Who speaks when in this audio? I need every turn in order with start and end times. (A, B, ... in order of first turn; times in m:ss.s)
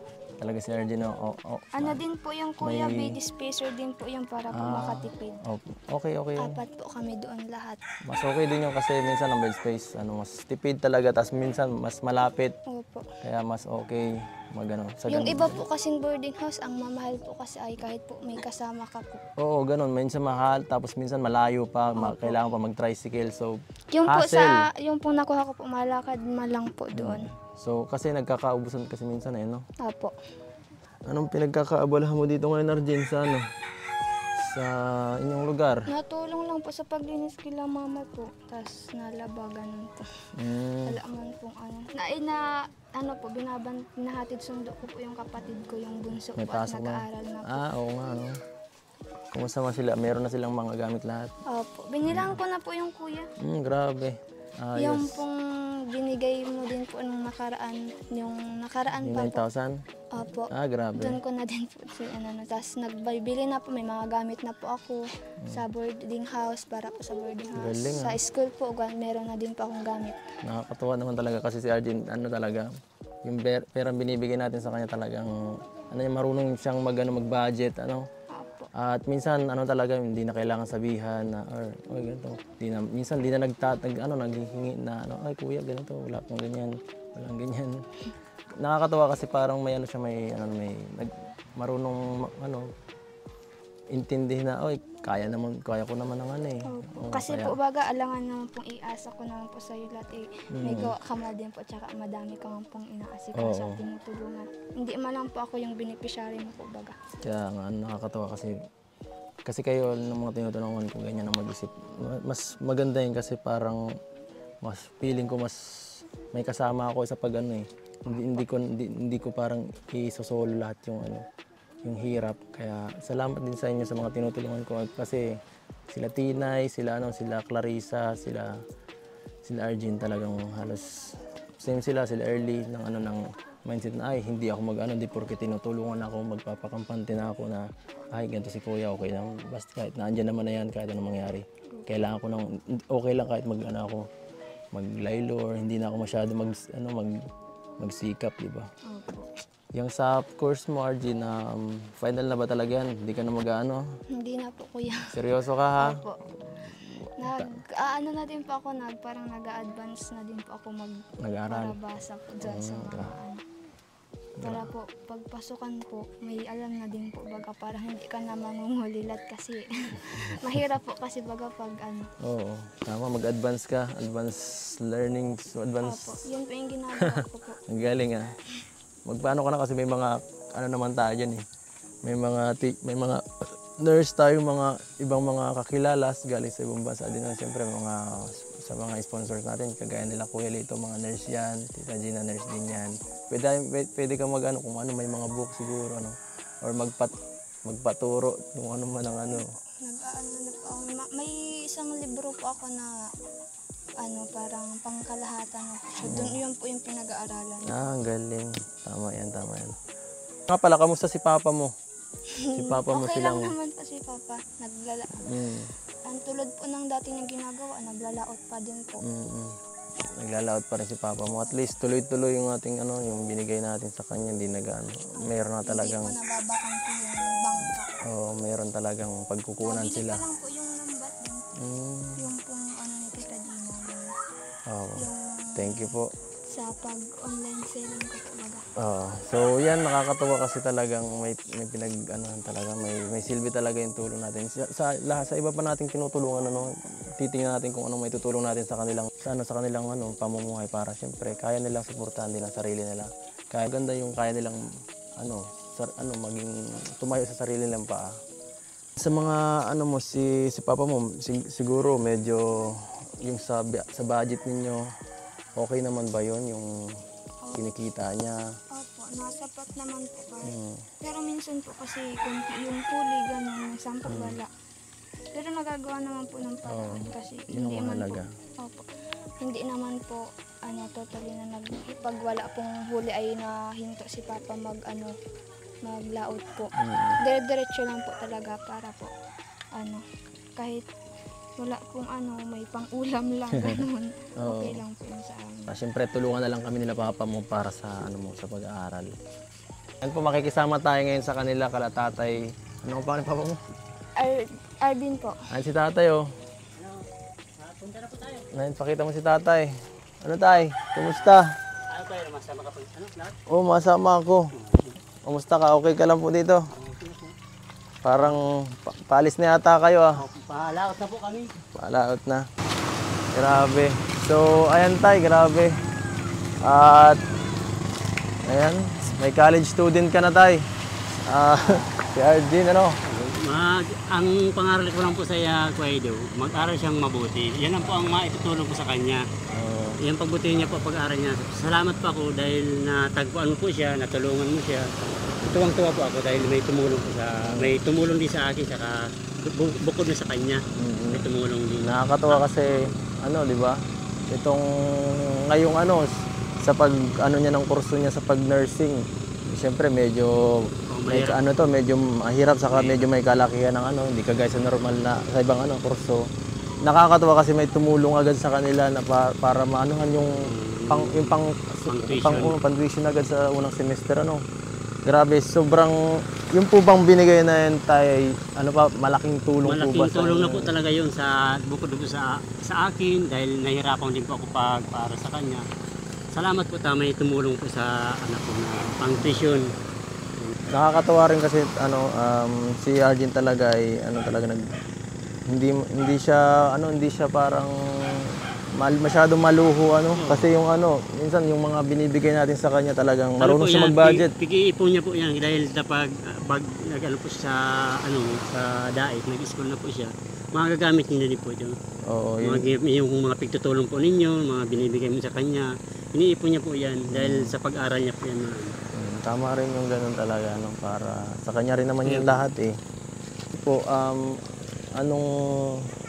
0:00.4-0:02.0 A
0:01.7-0:05.4 B
0:02.6-0:03.2 A
0:04.5-0:06.6 A
0:06.4-0:07.8 B
0:08.1-0:12.5 A
0:12.7-0:13.1 B
0:13.2-0:15.6 A
0:15.1-0:19.2 B
0:19.4-0:24.7 A
0:22.0-0:22.4 B
0:23.9-0:27.3 B
0:26.9-0:29.6 A
0:29.8-0:30.1 B
0:31.0-0:33.4 A
0:34.4-0:35.9 A
0:35.9-0:40.1 B
0:40.4-0:41.0 A
0:40.8-0:47.7 B
0:46.4-0:48.4 A
0:49.3-0:51.3 A
0:51.5-0:53.3 B
0:52.1-0:52.4 A
0:53.4-0:55.2 A
0:54.8-0:59.4 B
0:59.0-0:59.8 A
1:00.1-1:10.2 B
1:00.5-1:01.2 A
1:07.6-1:08.2 A
1:10.4-1:12.7 A
1:13.2-1:15.4 A
1:15.9-1:18.1 A
1:18.3-1:18.7 B
1:18.7-1:27.8 A
1:28.6-1:32.7 A
1:33.9-1:37.6 A
1:36.6-1:47.0 B
1:40.5-1:40.9 A
1:43.4-1:43.8 A
1:47.2-1:48.6 A
1:49.4-1:53.8 A
1:54.6-2:01.2 A
2:01.8-2:05.4 A
2:05.9-2:08.6 A
2:09.4-2:24.1 A
2:21.7-2:22.0 B
2:24.7-2:27.2 A
2:27.8-2:28.7 A
2:28.8-2:29.3 B
2:29.8-2:33.8 A
2:34.1-2:35.1 B
2:35.1-2:36.0 A
2:35.8-2:36.2 B
2:37.0-2:37.6 A
2:37.2-2:43.4 B
2:41.2-2:41.8 A
2:42.4-2:43.1 A
2:44.4-2:44.7 A
2:44.4-2:52.1 B
2:52.2-2:56.2 A
2:55.8-2:57.6 B
2:57.0-2:58.3 A
2:59.1-3:01.4 A
3:02.0-3:03.2 A
3:03.8-3:17.1 A
3:17.6-3:19.5 A
3:19.3-3:23.1 B
3:24.0-3:27.8 B
3:26.0-3:26.4 A
3:27.6-3:29.8 A
3:30.5-3:31.7 A
3:32.3-3:35.2 B
3:32.5-3:33.5 A
3:35.2-3:35.7 A
3:36.0-3:39.0 B
3:39.0-3:39.5 A
3:40.2-3:46.1 A
3:45.2-3:48.0 B
3:48.0-3:50.2 A
3:49.6-3:51.5 B
3:51.6-3:52.3 A
3:52.2-3:54.1 B
3:54.7-3:56.1 A
3:55.0-3:55.8 B
3:56.5-3:58.6 B
3:58.8-4:14.6 A
4:15.2-4:18.1 A
4:19.0-4:24.8 A
4:25.6-4:26.7 A
4:27.5-4:28.4 A
4:28.7-4:34.5 B
4:30.4-4:30.9 A
4:34.0-4:34.4 A
4:35.3-4:38.8 B
4:36.7-4:38.3 A
4:39.4-4:45.1 B
4:45.8-4:49.1 B
4:46.8-4:47.2 A
4:49.7-4:50.0 B
4:50.6-4:50.8 B
4:51.6-4:55.7 B
4:53.5-4:53.8 A
4:54.4-4:54.8 A
4:55.7-4:59.1 A
5:00.0-5:03.6 A
5:04.2-5:05.4 B
5:05.5-5:06.3 A
5:06.8-5:07.0 C
5:07.6-5:08.5 C
5:08.5-5:09.7 A
5:10.2-5:11.5 A
5:11.9-5:13.3 C
5:13.5-5:14.5 A
5:14.5-5:14.9 C
5:15.2-5:16.6 A
5:16.7-5:17.3 C
5:18.0-5:20.2 A
5:20.2-5:21.5 C
5:21.7-5:22.4 A
5:23.3-5:25.7 A
5:26.6-5:27.2 A
5:28.4-5:30.6 A
5:31.2-5:33.0 A
5:33.0-5:39.2 C
5:39.5-5:40.0 A
5:40.0-5:44.9 C
5:45.4-5:53.0 C
5:47.4-5:47.7 A
5:50.8-5:51.2 A
5:51.8-5:53.8 A
5:54.3-6:00.4 A
6:00.9-6:01.4 C
6:01.1-6:06.2 A
6:02.7-6:03.0 C
6:06.8-6:14.4 A
6:10.4-6:11.4 C
6:11.9-6:12.6 C
6:15.0-6:20.7 A
6:19.6-6:25.6 C
6:26.3-6:29.7 C
6:30.7-6:34.6 A
6:35.5-6:38.2 A
6:38.8-6:44.3 A
6:40.2-6:40.5 C
6:43.4-6:51.8 C
6:52.0-6:52.7 A
6:52.4-6:58.8 C
6:57.1-6:57.5 A
6:58.9-7:02.7 A
7:02.0-7:02.4 C
7:03.5-7:04.4 A
7:05.0-7:05.9 A